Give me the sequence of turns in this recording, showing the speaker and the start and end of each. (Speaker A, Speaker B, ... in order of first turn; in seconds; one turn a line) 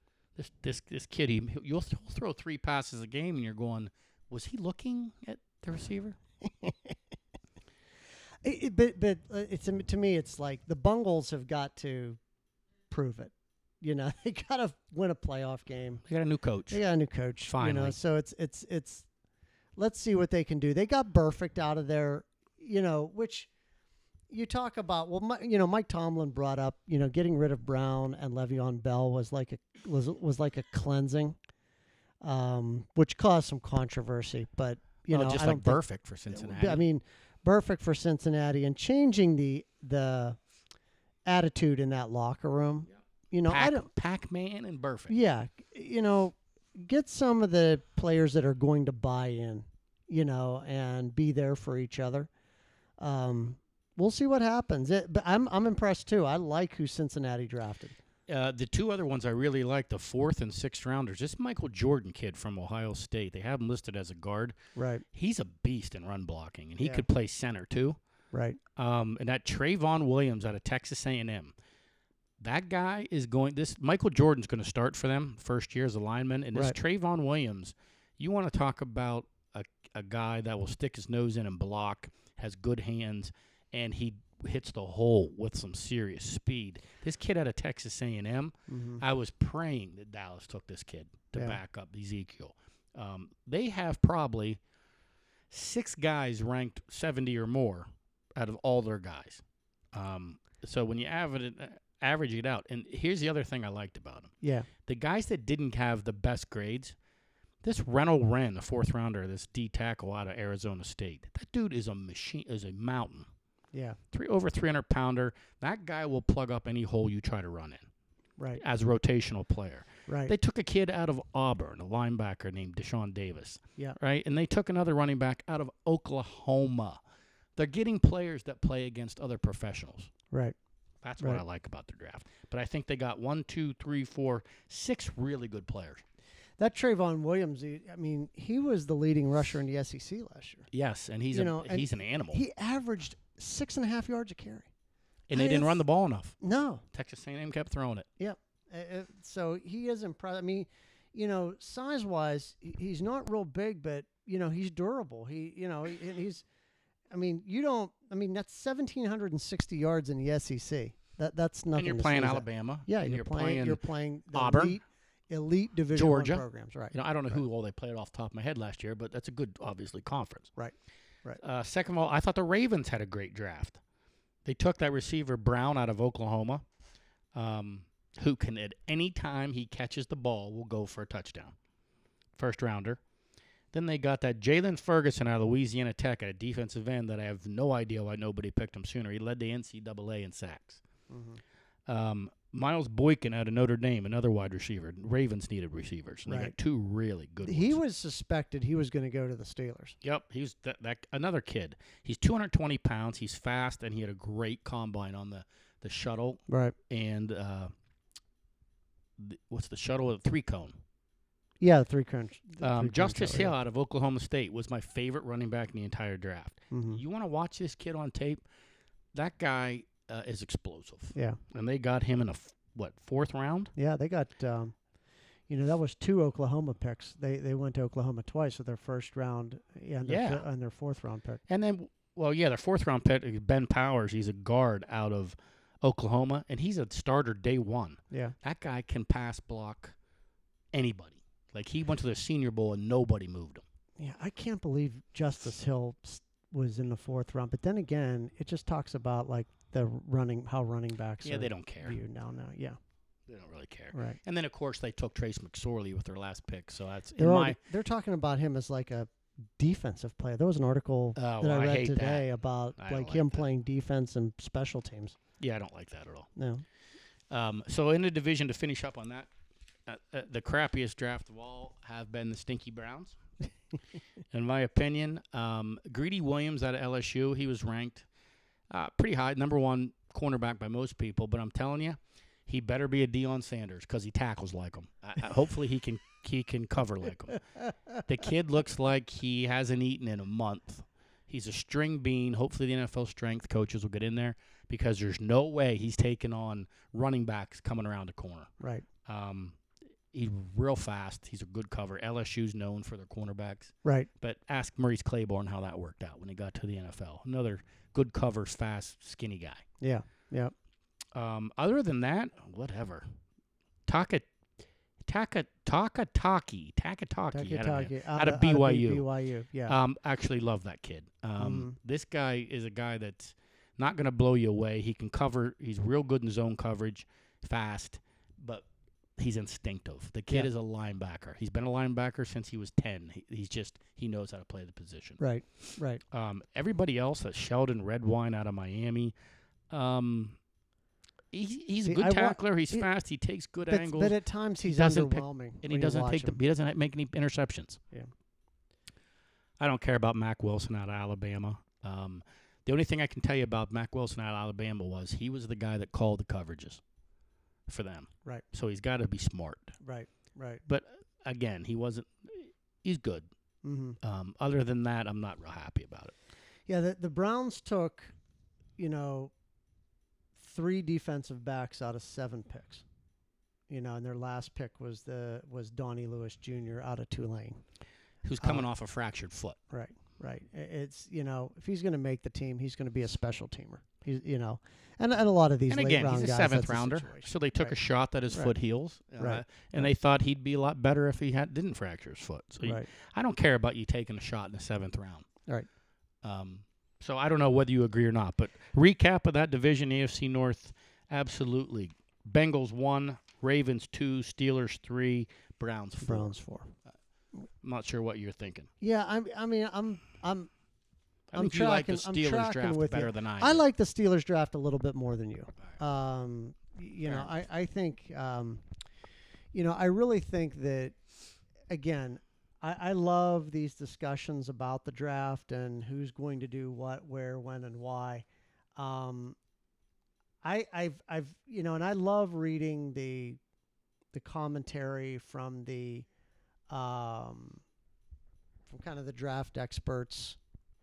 Speaker A: 0.3-6.2
Speaker B: 6.4-6.9
Speaker B: 8.4-12.2
Speaker B: 12.9-16.0
Speaker A: 16.1-16.8
Speaker B: 16.7-19.1
Speaker A: 17.4-18.0
Speaker B: 19.8-23.5
Speaker B: 24.3-31.4
Speaker B: 32.2-40.4
Speaker A: 35.1-36.8
Speaker B: 41.2-43.9
Speaker A: 43.5-45.1
Speaker B: 45.1-52.3
Speaker B: 53.0-58.0
Speaker A: 58.3-64.6
Speaker B: 64.8-65.0
Speaker A: 65.1-68.0
Speaker B: 68.3-68.6
Speaker A: 68.8-71.5
Speaker A: 72.4-94.6
Speaker B: 88.7-89.0
Speaker A: 95.5-99.4
Speaker A: 99.9-104.3
Speaker B: 104.4-104.7
Speaker A: 104.8-107.0
Speaker A: 107.6-113.3
Speaker B: 113.7-114.0
Speaker A: 114.1-117.9
Speaker A: 118.6-127.0
Speaker B: 120.1-120.3
Speaker A: 127.5-130.1
Speaker A: 131.0-136.0
Speaker B: 136.6-140.7
Speaker A: 140.7-142.4
Speaker B: 141.3-144.7
Speaker A: 145.3-146.3
Speaker B: 145.3-145.8
Speaker B: 146.4-146.8
Speaker A: 146.9-148.1
Speaker B: 148.2-156.4
Speaker B: 157.1-167.4
Speaker A: 161.7-163.8
Speaker A: 164.3-164.8
Speaker A: 165.9-170.5
Speaker B: 170.6-171.4
Speaker A: 171.4-173.8
Speaker A: 174.4-176.6
Speaker A: 177.3-181.5
Speaker A: 182.3-183.0
Speaker A: 183.7-190.8
Speaker B: 191.1-191.4
Speaker A: 191.9-197.8
Speaker B: 196.3-196.5
Speaker B: 197.4-199.9
Speaker A: 200.0-207.7
Speaker B: 206.5-206.7
Speaker A: 209.2-210.8
Speaker B: 211.6-213.5
Speaker A: 212.6-218.4
Speaker B: 216.7-217.0
Speaker A: 219.1-223.7
Speaker B: 221.1-221.4
Speaker B: 223.8-224.7
Speaker B: 225.5-231.4
Speaker A: 230.0-230.4
Speaker A: 231.5-239.9
Speaker A: 240.7-243.6
Speaker B: 244.0-252.8
Speaker A: 251.2-252.0
Speaker A: 253.3-257.6
Speaker B: 253.9-254.2
Speaker B: 257.2-265.2
Speaker A: 261.1-262.3
Speaker A: 262.8-263.4
Speaker A: 265.4-266.3
Speaker B: 266.4-266.6
Speaker A: 267.3-269.3
Speaker A: 269.9-273.2
Speaker A: 274.3-278.1
Speaker A: 278.7-287.4
Speaker A: 287.9-298.5
Speaker B: 298.6-298.9
Speaker A: 299.0-299.6
Speaker A: 300.1-309.6
Speaker B: 303.8-304.1
Speaker B: 309.8-310.5
Speaker A: 311.1-313.0
Speaker A: 313.9-314.3
Speaker A: 315.0-319.1
Speaker B: 317.3-319.8
Speaker A: 319.7-328.6
Speaker B: 321.4-321.8
Speaker A: 329.2-335.2
Speaker B: 335.2-336.0
Speaker A: 336.1-339.1
Speaker A: 339.7-340.4
Speaker A: 341.3-347.8
Speaker B: 341.8-342.9
Speaker B: 343.7-346.4
Speaker A: 349.6-356.8
Speaker A: 357.7-359.8
Speaker B: 359.8-360.6
Speaker A: 360.6-363.3
Speaker B: 363.6-364.0
Speaker A: 364.0-366.1
Speaker B: 366.7-368.1
Speaker B: 368.8-369.3
Speaker B: 370.4-372.8
Speaker B: 373.7-377.6
Speaker A: 378.2-379.6
Speaker B: 379.7-387.7
Speaker A: 385.7-395.3
Speaker B: 389.2-389.9
Speaker B: 392.6-392.9
Speaker A: 396.2-406.3
Speaker B: 406.0-406.7
Speaker A: 407.6-408.7
Speaker B: 408.8-410.5
Speaker A: 411.3-413.6
Speaker B: 411.3-418.6
Speaker B: 419.5-420.9
Speaker B: 421.7-428.2
Speaker B: 428.8-429.4
Speaker B: 430.4-433.4
Speaker B: 434.1-436.1
Speaker B: 436.7-437.6
Speaker B: 438.7-440.4